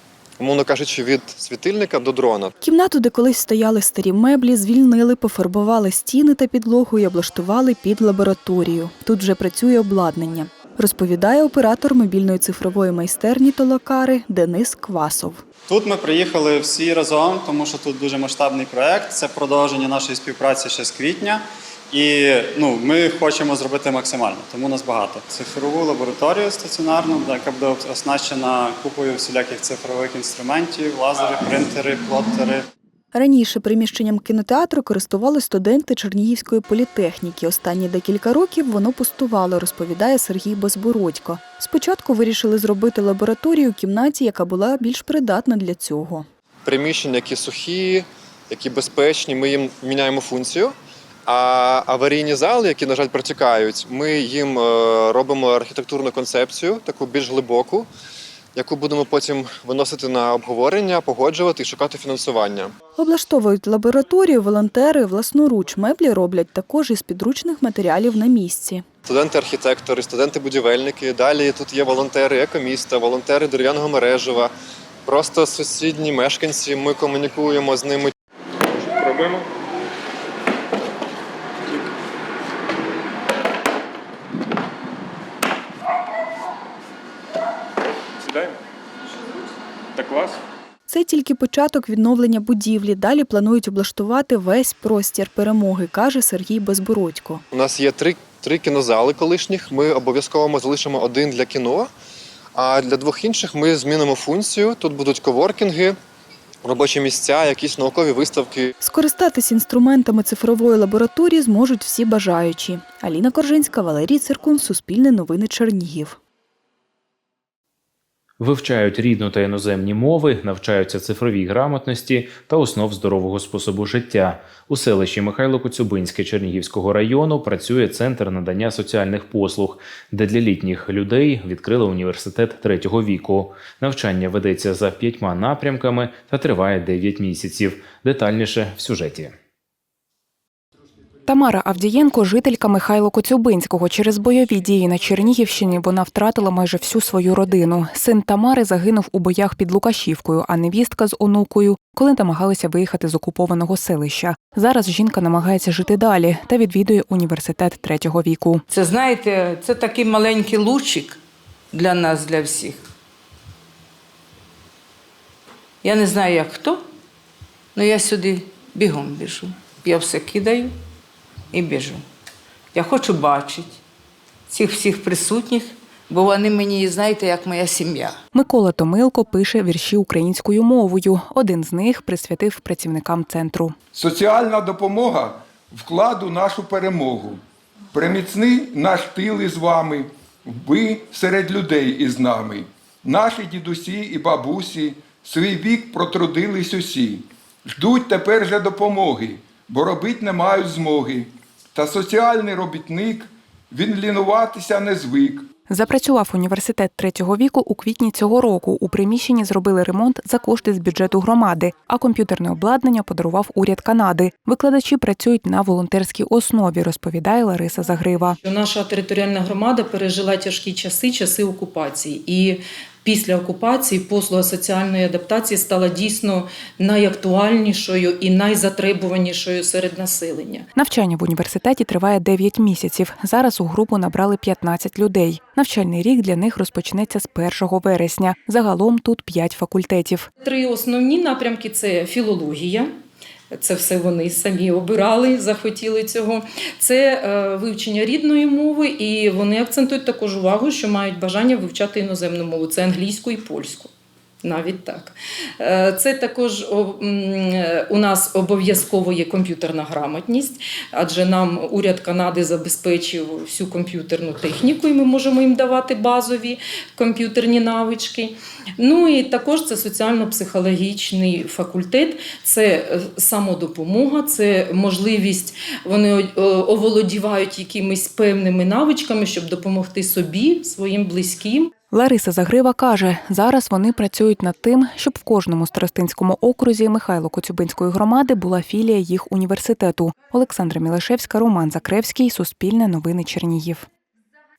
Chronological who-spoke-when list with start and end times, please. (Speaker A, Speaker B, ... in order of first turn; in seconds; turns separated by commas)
Speaker A: 0.4-2.5, Speaker B: 2.6-15.4, Speaker C: 15.7-32.6, Speaker B: 33.1-46.2, Speaker A: 46.6-50.7, Speaker A: 51.3-57.9, Speaker A: 58.6-62.7, Speaker B: 63.0-68.8, Speaker A: 69.1-74.5, Speaker A: 75.1-78.1, Speaker B: 90.9-97.4, Speaker A: 97.5-101.9, Speaker A: 102.5-106.0, Speaker A: 106.6-108.7, Speaker B: 108.8-116.2, Speaker D: 118.4-139.3, Speaker E: 141.3-158.6, Speaker F: 158.7-161.2, Speaker F: 161.7-162.8, Speaker F: 165.8-166.8, Speaker F: 167.8-170.7, Speaker F: 171.5-172.0, Speaker F: 172.7-173.8, Speaker F: 174.5-178.2, Speaker E: 178.3-183.8, Speaker G: 183.9-187.4, Speaker G: 187.9-205.5, Speaker E: 205.7-218.4, Speaker H: 218.4-230.7, Speaker E: 230.8-240.3, Speaker H: 240.4-242.9, Speaker H: 243.5-253.9, Speaker H: 254.4-281.7, Speaker E: 281.9-293.9